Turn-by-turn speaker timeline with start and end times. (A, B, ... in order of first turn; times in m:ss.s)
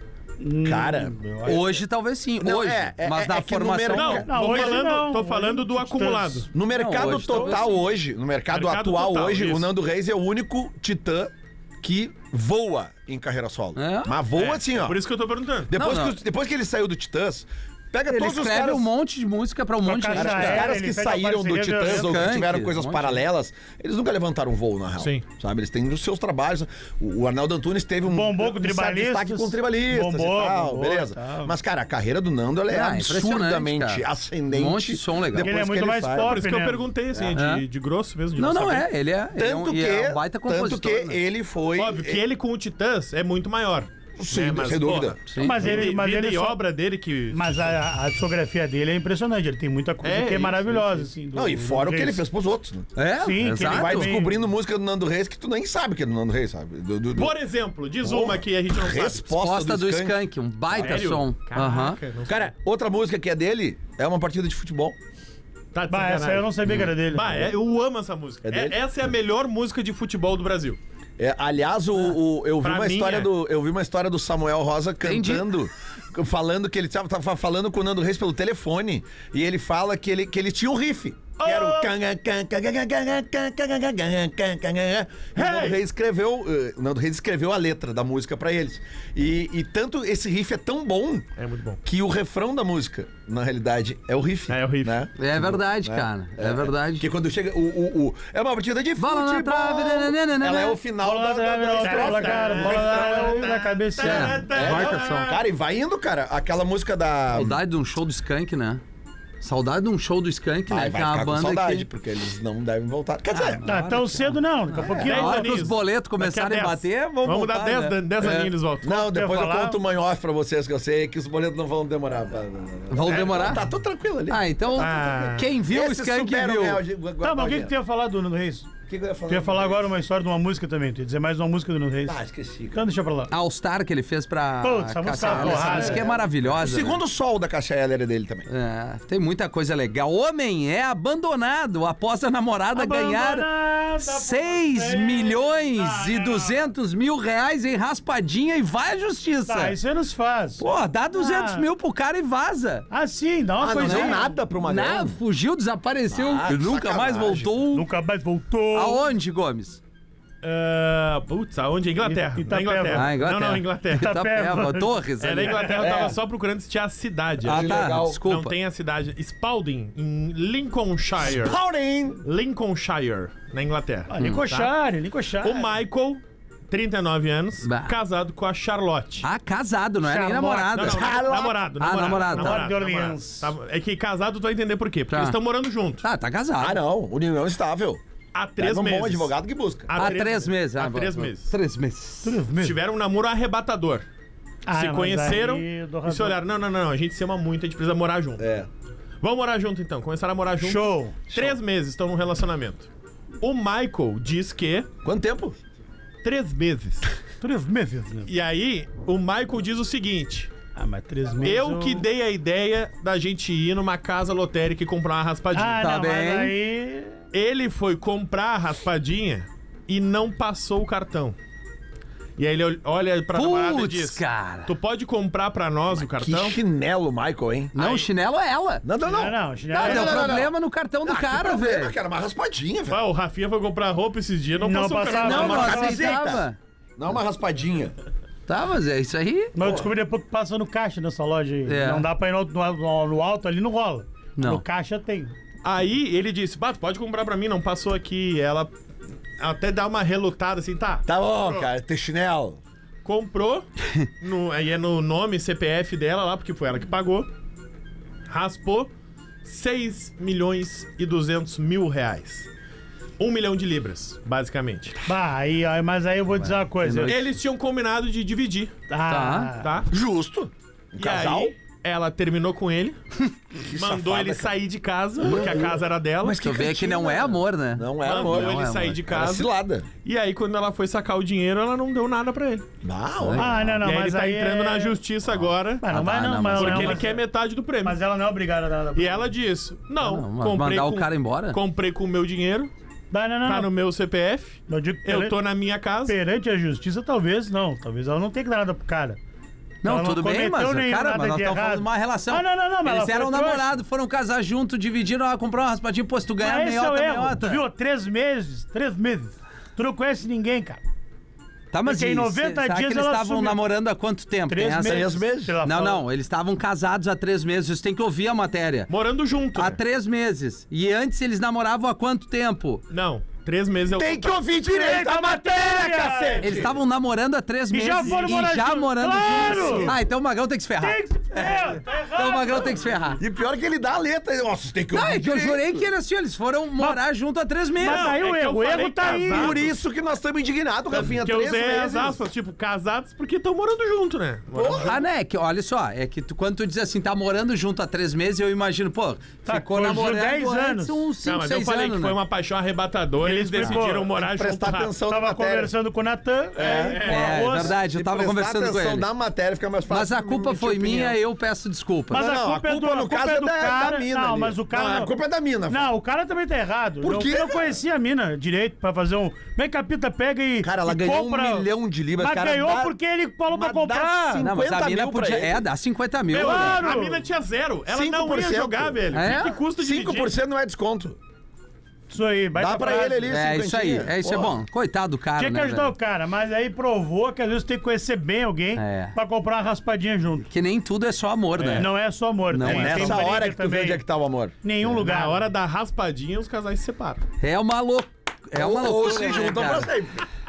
0:00.4-0:01.6 A
0:00.6-0:01.8 B
0:01.4-0:04.2 C
0:02.4-0:04.8 B
0:03.9-0:06.5 D
0:04.3-0:07.6 A
0:06.5-0:15.0 B
0:06.7-0:07.8 C
0:08.5-0:09.7 D
0:13.8-0:14.2 C
0:14.4-0:15.7 D
0:15.7-0:18.9 B
0:15.7-0:16.2 C
0:18.1-0:20.7 C
0:19.8-0:22.3 A
0:20.1-0:36.4 B
0:21.8-0:23.2 C
0:25.0-0:25.2 D
0:28.0-0:31.5 A
0:32.7-0:35.6 C
0:35.4-0:36.8 A
0:36.2-0:38.9 D
0:37.1-0:37.4 B
0:37.4-0:37.6 C
0:38.4-0:41.2 C
0:39.3-0:42.2 B
0:41.8-0:47.5 D
0:44.2-0:45.2 B
0:45.3-0:45.8 C
0:45.4-0:46.6 A
0:47.3-0:52.2 A
0:50.0-0:51.1 D
0:51.3-0:52.9 B
0:53.0-0:54.1 C
0:53.2-0:54.4 A
0:53.6-0:57.4 B
0:57.2-0:59.3 D
0:58.0-1:00.2 B
0:59.3-1:02.0 C
1:00.7-1:02.5 D
1:02.3-1:05.0 B
1:05.7-1:06.5 D
1:05.9-1:07.5 A
1:06.7-1:06.9 C
1:07.1-1:10.8 D
1:08.4-1:08.8 B
1:11.2-1:31.3 B
1:12.6-1:13.3 D
1:15.0-1:15.5 C
1:21.4-1:21.9 D
1:25.4-1:25.8 D
1:31.4-1:31.8 D
1:31.8-1:43.5 B
1:34.5-1:35.0 D
1:35.2-1:37.1 C
1:39.0-1:40.8 C
1:41.0-1:44.4 A
1:41.8-1:45.4 D
1:44.0-1:45.3 C
1:44.5-1:47.6 B
1:47.3-1:48.8 C
1:49.4-1:51.9 C
1:50.7-1:53.6 B
1:53.3-1:58.5 C
1:53.7-1:55.6 A
1:54.8-1:55.1 B
1:55.1-1:59.0 D
1:58.8-2:07.7 B
1:59.1-1:59.8 A
2:02.9-2:03.6 C
2:04.3-2:06.8 C
2:04.8-2:05.5 D
2:07.2-2:08.7 A
2:08.9-2:09.9 B
2:09.3-2:12.2 A
2:12.1-2:12.9 B
2:12.7-2:13.3 A
2:13.3-2:17.0 C
2:14.6-2:16.1 A
2:15.2-2:18.5 B
2:18.5-2:29.8 C
2:22.7-2:26.6 A
2:29.5-2:31.7 A
2:30.6-2:32.9 C
2:32.9-2:34.4 A
2:33.6-2:35.2 B
2:33.8-2:37.9 C
2:36.1-2:37.6 B
2:37.7-2:39.1 A
2:38.7-2:39.8 C
2:40.4-2:44.1 D
2:42.0-2:43.1 A
2:42.9-2:45.8 C
2:43.9-2:45.0 A
2:45.2-2:51.6 D
2:45.7-2:46.2 B
2:47.4-2:48.2 B
2:47.4-2:48.6 C
2:51.2-2:52.2 B
2:52.2-2:54.7 D
2:54.1-2:55.8 A
2:54.2-2:54.4 C
2:55.4-2:59.3 D
2:57.6-2:58.0 C
2:59.2-3:01.3 C
3:00.0-3:00.8 A
3:00.7-3:06.0 D
3:00.8-3:01.6 B
3:01.8-3:02.6 C
3:02.3-3:03.5 A
3:05.1-3:05.4 C
3:06.0-3:06.8 C
3:06.6-3:08.0 B
3:08.3-3:09.3 D
3:08.6-3:10.2 B
3:09.9-3:11.5 D
3:10.0-3:12.4 C
3:12.2-3:12.8 A
3:12.6-3:14.1 D
3:14.7-3:16.4 A
3:14.7-3:18.4 D
3:18.4-3:18.7 B
3:19.2-3:22.9 D
3:20.6-3:21.2 A
3:21.3-3:21.6 B
3:23.4-3:24.9 D
3:25.0-3:25.6 B
3:26.2-3:27.1 D
3:27.4-3:28.3 A
3:28.3-3:30.5 D
3:30.8-3:32.0 A
3:31.4-3:35.9 D
3:35.5-3:37.2 A
3:35.8-3:36.6 C
3:37.3-3:41.4 D
3:42.4-3:46.6 D
3:43.4-3:44.7 C
3:46.1-3:47.7 B
3:47.8-3:48.8 C
3:47.8-3:48.1 D
3:48.8-3:53.0 B
3:49.0-3:50.4 A
3:49.7-3:51.9 C
3:52.9-3:55.8 D
3:54.6-3:56.4 A
3:55.2-3:57.9 B
3:55.2-3:56.6 C
3:58.5-3:59.5 C
3:59.6-4:05.4 A
3:59.6-3:59.9 B
4:01.7-4:02.1 C
4:04.4-4:04.6 C
4:05.6-4:08.7 D
4:09.4-4:11.7 D
4:11.1-4:12.6 B
4:13.0-4:13.7 D
4:14.2-4:17.3 D
4:18.3-4:18.9 D
4:19.4-4:22.5 D
4:23.2-4:25.0 D
4:25.1-4:27.2 A
4:26.8-4:27.3 C
4:27.1-4:28.7 D
4:28.9-4:29.7 A
4:29.1-4:29.6 C
4:29.6-4:29.9 D
4:29.9-4:31.5 B
4:31.0-4:33.0 D
4:33.7-4:34.6 B
4:33.7-4:36.4 D
4:35.2-4:39.9 B
4:36.3-4:39.0 C
4:38.0-4:39.5 D
4:40.0-4:42.7 D
4:42.8-4:43.8 B
4:43.2-4:43.8 C
4:43.4-4:45.0 A
4:43.8-4:45.8 D
4:45.8-4:47.2 A
4:45.9-4:47.0 C
4:46.6-4:48.0 D
4:47.8-4:49.3 A
4:49.0-4:52.7 D
4:50.0-4:51.6 C
4:53.1-4:53.7 A
4:53.4-4:56.2 D
4:54.7-4:55.4 A
4:56.1-4:59.2 A
4:59.8-5:07.6 C
4:59.8-5:03.8 A
5:06.4-5:10.8 A
5:11.7-5:18.9 C
5:11.8-5:13.6 A
5:14.5-5:16.0 A
5:14.8-5:15.6 B
5:18.9-5:19.8 D
5:19.6-5:22.8 C
5:22.9-5:24.4 D
5:23.9-5:26.8 B
5:24.6-5:26.6 A
5:26.4-5:33.2 C
5:27.7-5:29.9 A
5:28.0-5:28.5 D
5:29.2-5:30.0 D
5:30.8-5:33.1 A
5:33.2-5:35.9 B
5:34.9-5:38.1 C
5:37.8-5:39.6 A
5:37.8-5:39.8 D
5:39.3-5:42.2 B
5:40.9-5:45.0 D
5:44.5-5:45.0 B
5:44.8-5:52.2 C
5:49.4-5:51.1 A
5:51.2-5:54.9 D
5:53.2-5:54.1 A
5:53.6-5:55.7 B
5:55.1-5:57.8 A
5:56.5-6:01.2 B
5:56.6-5:57.4 D
5:57.0-5:59.1 C
5:59.9-6:02.3 C
6:02.1-6:05.1 A
6:02.1-6:05.9 B
6:05.7-6:14.5 A
6:07.0-6:07.8 B
6:10.6-6:13.0 B
6:13.5-6:15.7 B
6:14.4-6:16.9 C
6:16.3-6:20.3 D
6:16.3-6:17.2 A
6:17.9-6:21.2 B
6:19.1-6:19.6 C
6:22.1-6:23.4 A
6:22.6-6:24.6 B
6:23.3-6:25.9 C
6:25.4-6:30.5 A
6:28.8-6:29.2 C
6:30.5-6:31.9 C
6:31.6-6:31.9 D
6:31.8-6:34.0 A
6:32.5-6:33.3 C
6:32.6-6:34.6 B
6:34.6-6:35.5 A
6:34.9-6:37.2 D
6:37.4-6:39.9 C
6:38.6-6:40.2 B